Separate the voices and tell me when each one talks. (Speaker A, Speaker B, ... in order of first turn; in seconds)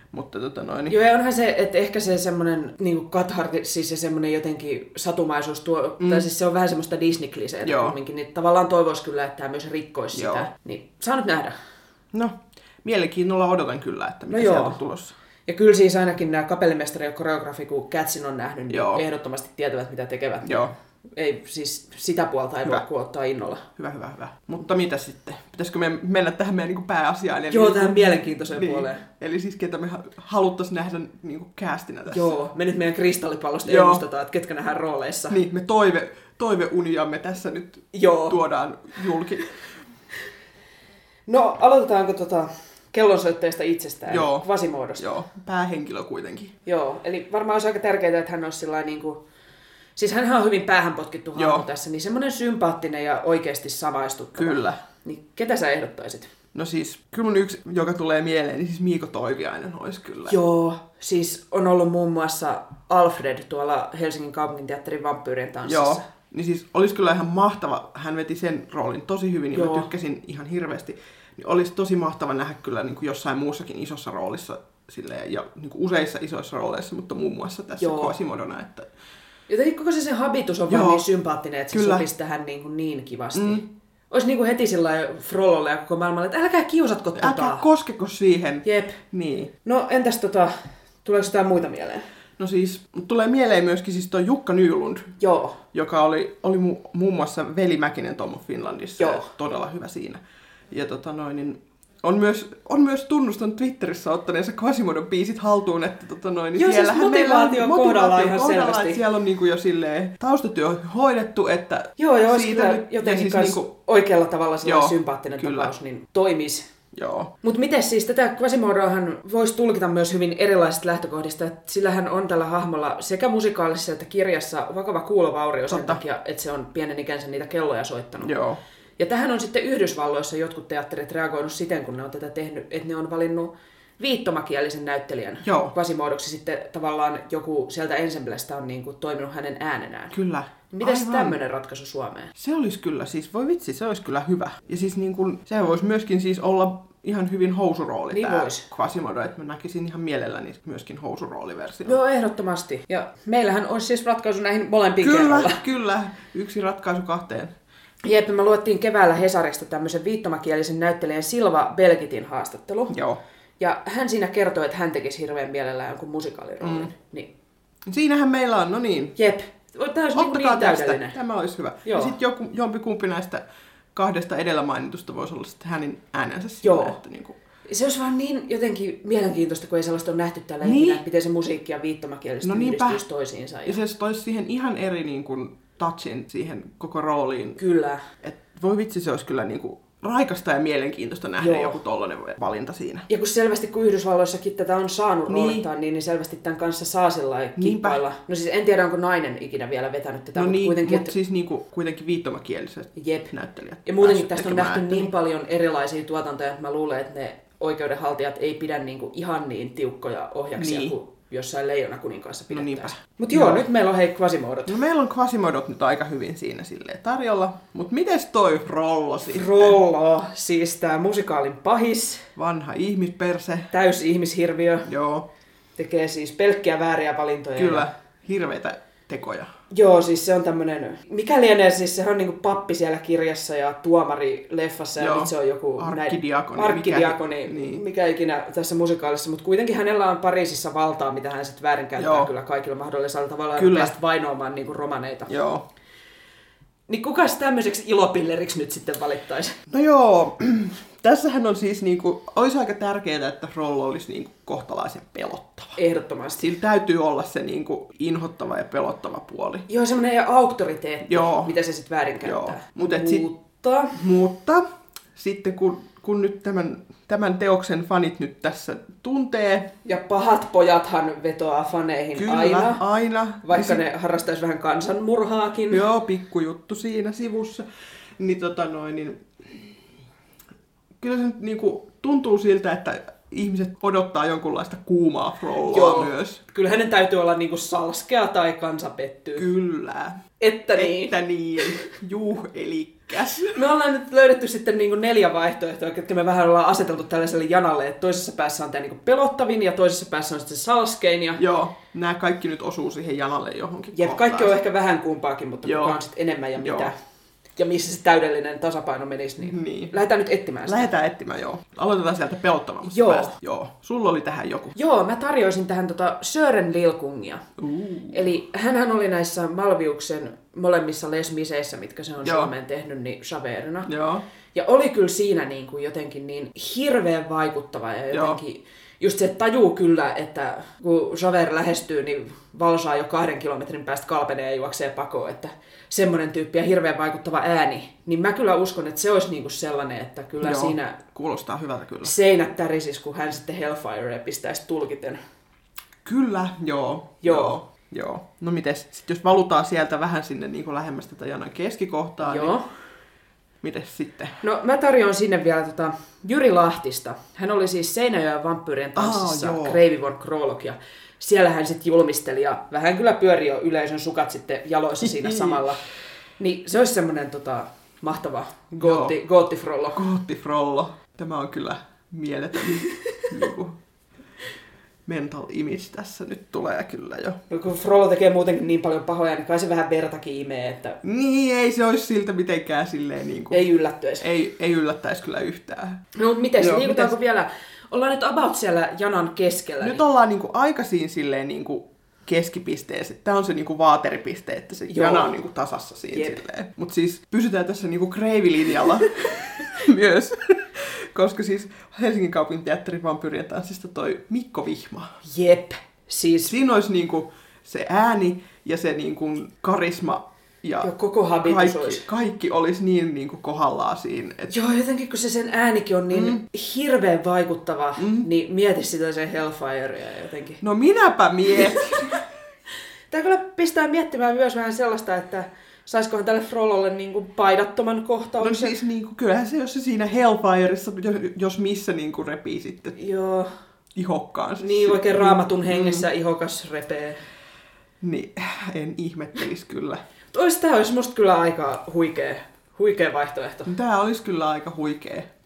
Speaker A: 0.1-1.0, 6.0-6.3, 7.6-8.0, 10.1-10.5, 12.1-15.1, 18.7-19.0, 20.4-20.7, 23.8-32.4, 33.6-34.0, 35.3-39.5, 44.1-46.5, 51.3-51.6, 54.4-54.8, 56.5-60.4, 65.6-78.9, 80.7-81.1, 81.7-82.0, 83.3-83.7, 87.2-89.5, 92.4-95.1, 95.7-100.2, 100.7-113.7, 114.6-115.7, 116.9-117.3, 125.7-126.0, 128.2-128.6, 135.4-135.7, 140.1-141.4, 142.4-152.0, 155.0-157.5, 162.9-163.2, 166.6-166.9, 167.9-169.2, 170.1-177.4, 180.6-181.0, 182.4-183.0, 183.6-187.6, 188.2-193.1, 195.3-195.7, 197.6-198.0, 200.3-205.1, 210.6-210.9, 212.5-213.7, 214.7-219.8, 222.3-223.7, 224.8-225.3, 227.6-229.5, 235.0-237.8, 242.0-242.3, 243.6-243.9, 245.3-245.6, 249.7-255.8, 256.4-259.7, 261.0-261.5, 262.2-263.3, 263.9-264.6, 265.1-269.7, 272.1-273.8, 275.7-277.6, 278.2-279.5, 281.0-286.4, 289.4-290.2, 290.7-293.6, 301.4-304.6, 305.6-306.0, 306.6-306.9, 309.4-310.0, 310.6-314.7, 317.6-318.3, 322.2-322.5, 323.8-324.2, 328.1-328.4, 340.4-342.1, 346.0-352.6, 353.6-354.4, 358.9-359.8, 365.0-365.6, 368.8-369.2, 369.9-373.8, 375.1-377.4, 381.0-383.7, 384.2-386.0, 386.6-387.1, 389.8-405.1, 406.4-414.5, 416.1-416.4, 418.0-418.3, 420.6-422.2, 428.4-433.0, 433.9-436.1, 438.0-440.0, 443.6-445.3
Speaker B: 0.9-11.5, 14.3-14.8, 15.4-23.7, 27.5-29.1, 32.1-35.4, 37.9-38.4, 41.2-45.0, 46.6-49.2, 50.0-56.3, 60.3-66.0, 69.5-69.9, 77.8-78.1, 79.5-87.7, 88.6-89.0, 89.6-92.0, 95.2-95.6, 99.0-99.3, 106.5-109.0, 112.0-116.7, 117.4-128.3, 129.0-140.2, 140.7-142.3, 148.1-148.6, 151.8-155.6, 158.0-163.0, 163.6-167.3, 169.2-171.2, 171.8-172.2, 176.6-177.0, 177.7-183.8, 187.6-188.0, 191.4-191.8, 193.1-201.1, 202.9-203.3, 203.8-214.8, 219.3-222.2, 223.7-224.9, 225.8-227.9, 229.7-245.3, 246.9-249.6, 255.8-256.5, 259.7-263.9, 269.8-272.8, 273.4-275.8, 285.7-289.5, 290.4-291.8, 293.5-301.4, 303.9-306.9, 307.6-310.9, 312.9-313.4, 314.7-317.4, 318.1-323.9, 324.5-341.0, 342.0-345.2, 347.2-347.6, 352.2-352.7, 354.4-365.8, 366.4-370.0, 377.5-381.0, 383.5-384.3, 386.1-390.0, 394.9-395.4, 396.1-396.4, 405.2-406.5, 410.8-412.0, 414.5-420.6, 421.6-422.1, 423.1-428.7, 432.9-433.5, 434.6-437.2, 440.3-443.7